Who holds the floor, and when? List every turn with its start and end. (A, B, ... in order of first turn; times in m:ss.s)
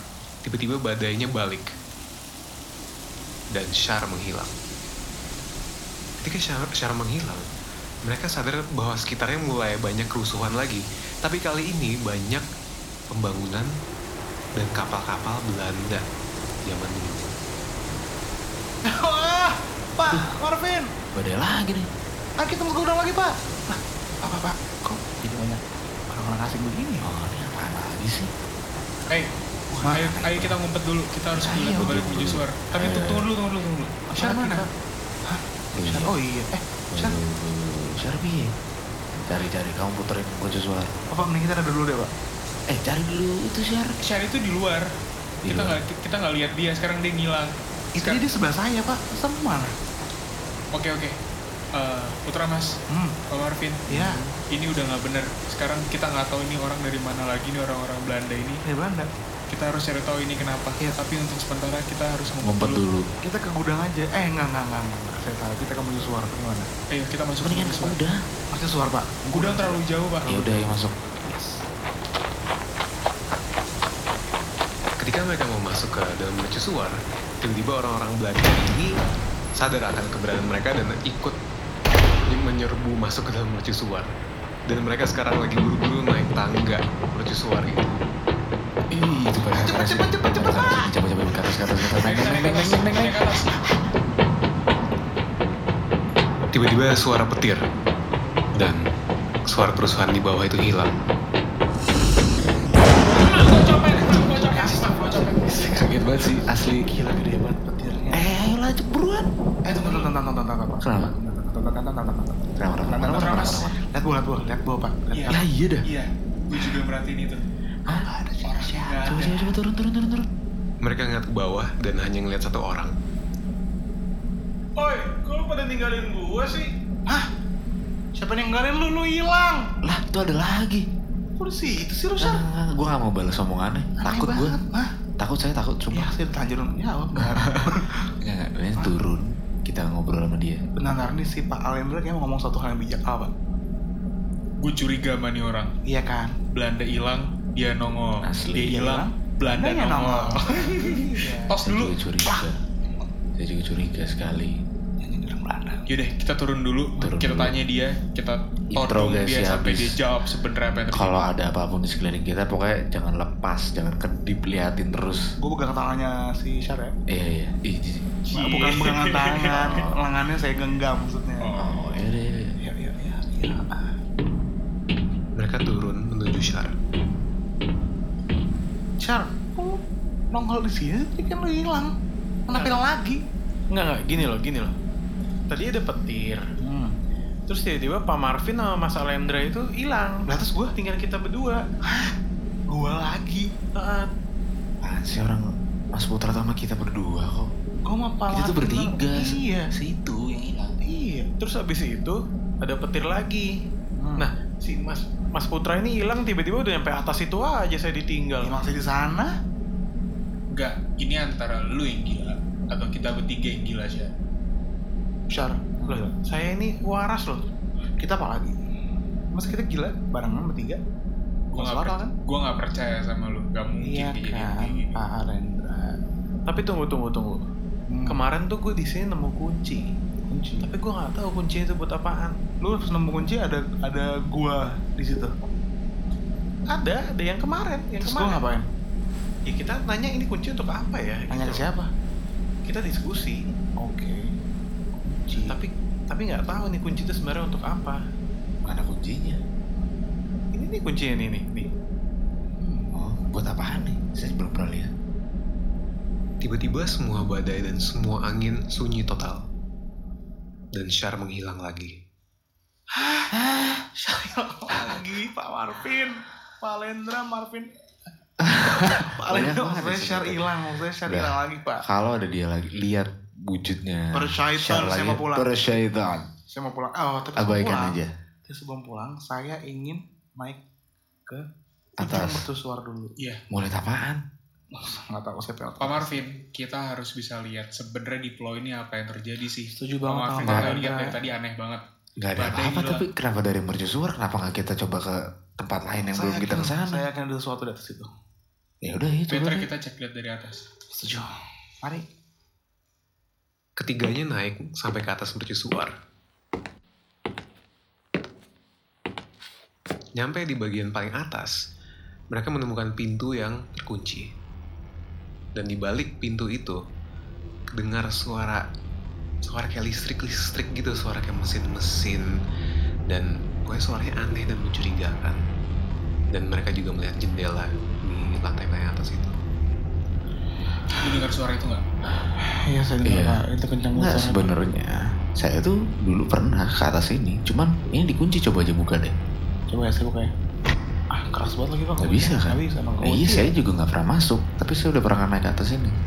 0:00.4-0:01.7 A
0:03.5-0:04.5 A
0:06.2-0:07.4 A
0:08.0-0:12.4 A
0:13.1-0:13.7 A
0:14.6-0:16.0 A
0:16.6-0:17.3 A
0:18.8-0:20.9 B
0:21.1-0:21.9 C
0:22.4-0:27.1 B
0:27.0-0:28.3 C
0:29.7-0:30.6 C
0:29.9-0:34.6 D
0:31.4-0:33.3 C
0:31.5-0:31.9 B
0:34.1-0:34.7 B
0:35.3-0:37.2 B
0:35.7-0:36.1 C
0:36.9-0:38.5 C
0:39.3-0:40.9 C
0:41.1-0:42.1 B
0:42.7-0:44.0 C
0:44.0-0:44.8 D
0:45.4-0:45.8 C
0:45.4-0:48.2 D
0:48.0-0:49.7 B
0:50.7-0:51.1 D
0:51.8-0:52.7 D
0:53.3-0:54.0 D
0:53.9-0:54.2 B
0:54.0-0:54.3 C
0:54.5-0:58.6 D
0:58.6-0:59.1 B
0:59.5-1:02.8 D
1:02.4-1:03.1 C
1:03.2-1:06.7 B
1:06.9-1:08.0 D
1:07.4-1:08.2 C
1:08.5-1:10.5 B
1:09.3-1:10.4 D
1:10.2-1:10.9 C
1:15.0-1:19.0 A
1:19.6-1:21.4 A
1:22.3-1:24.1 A
1:24.7-1:28.0 A
1:28.9-1:33.2 C
1:29.5-1:30.9 B
1:32.0-1:33.6 D
1:36.5-1:37.6 A
1:38.6-1:38.9 A
1:39.5-1:40.9 A
1:43.1-1:45.5 D
1:44.5-1:48.3 B
1:45.5-1:46.9 C
1:48.1-1:49.3 C
1:49.6-1:55.4 B
1:49.7-1:50.1 D
1:50.8-1:51.1 C
1:52.6-1:53.8 C
1:53.1-1:53.6 D
1:55.1-1:57.4 D
1:55.3-1:55.8 C
1:57.9-1:58.1 C
1:57.9-1:59.3 B
1:58.4-1:59.5 D
1:59.0-2:00.3 C
2:00.8-2:02.9 A
2:04.8-2:06.7 E
2:08.2-2:09.6 B
2:09.8-2:10.8 C
2:11.4-2:12.4 B
2:12.2-2:14.6 C
2:14.0-2:14.9 B
2:15.2-2:16.1 C
2:15.9-2:18.1 B
2:18.2-2:20.6 C
2:20.8-2:23.3 B
2:24.6-2:25.7 D
2:25.8-2:26.3 B
2:26.5-2:32.0 D
2:28.2-2:28.8 C
2:28.6-2:31.5 B
2:31.6-2:32.6 C
2:33.4-2:34.6 C
2:35.0-2:35.8 B
2:35.9-2:41.2 D
2:37.0-2:37.5 C
2:38.7-2:40.0 C
2:40.9-2:45.2 C
2:45.4-2:47.0 B
2:47.1-2:48.1 C
2:48.2-2:49.8 D
2:48.3-2:51.5 B
2:49.4-2:50.0 C
2:51.4-2:51.8 D
2:51.6-2:52.6 C
2:52.6-2:53.9 B
2:55.4-2:56.7 A
2:59.0-2:59.8 B
3:00.3-3:01.9 B
3:02.5-3:03.2 B
3:03.7-3:04.7 E
3:05.5-3:06.4 E
3:06.6-3:06.9 B
3:07.5-3:11.6 E
3:10.3-3:10.7 B
3:11.9-3:12.1 B
3:12.7-3:13.5 B
3:13.8-3:14.1 E
3:14.8-3:17.5 C
3:17.8-3:19.7 B
3:18.3-3:20.8 C
3:20.8-3:21.3 B
3:21.4-3:23.5 E
3:24.0-3:24.3 B
3:24.2-3:28.5 E
3:28.4-3:29.3 B
3:30.5-3:34.1 D
3:35.3-3:36.1 B
3:35.9-3:37.4 E
3:38.0-3:38.6 B
3:39.3-3:40.8 B
3:41.5-3:45.0 D
3:41.6-3:42.1 B
3:43.8-3:46.0 B
3:46.5-3:47.4 E
3:47.9-3:48.2 B
3:48.1-3:49.9 E
3:50.3-3:50.7 B
3:50.6-3:52.4 E
3:52.6-3:55.3 B
3:56.7-3:58.4 E
3:58.0-3:58.7 B
3:59.5-4:01.7 E
4:01.3-4:01.9 B
4:02.6-4:03.4 E
4:03.8-4:04.3 B
4:05.0-4:05.6 B
4:05.5-4:08.0 E
4:08.6-4:09.4 C
4:10.5-4:11.7 E
4:12.6-4:12.9 B
4:12.9-4:14.9 C
4:16.4-4:19.4 A
4:20.7-4:21.9 A
4:23.0-4:27.7 B
4:28.4-4:36.3 C
4:28.6-4:31.8 B
4:34.1-4:35.6 B
4:36.5-4:37.9 B
4:37.4-4:38.1 C
4:38.5-4:40.6 B
4:42.0-4:42.4 C
4:42.0-4:43.1 B
4:43.5-4:44.2 C
4:44.7-4:46.2 B
4:45.8-4:51.8 D
4:49.8-4:51.1 B
4:50.4-4:50.7 C
4:52.2-4:57.0 C
4:52.4-4:53.0 D
4:56.1-4:58.1 B
4:58.8-4:59.7 C
4:59.3-5:00.6 D
5:00.9-5:02.0 B
5:03.8-5:05.9 A
5:10.2-5:11.6 A
5:12.3-5:14.3 A
5:15.6-5:16.8 A
5:17.8-5:18.6 A
5:19.4-5:22.2 A
5:23.1-5:25.4 A
5:26.3-5:29.3 A
5:31.0-5:31.8 D
5:32.6-5:34.5 B
5:33.0-5:33.4 C
5:34.0-5:39.1 C
5:39.7-5:40.3 B
5:41.1-5:43.5 B
5:42.0-5:45.9 C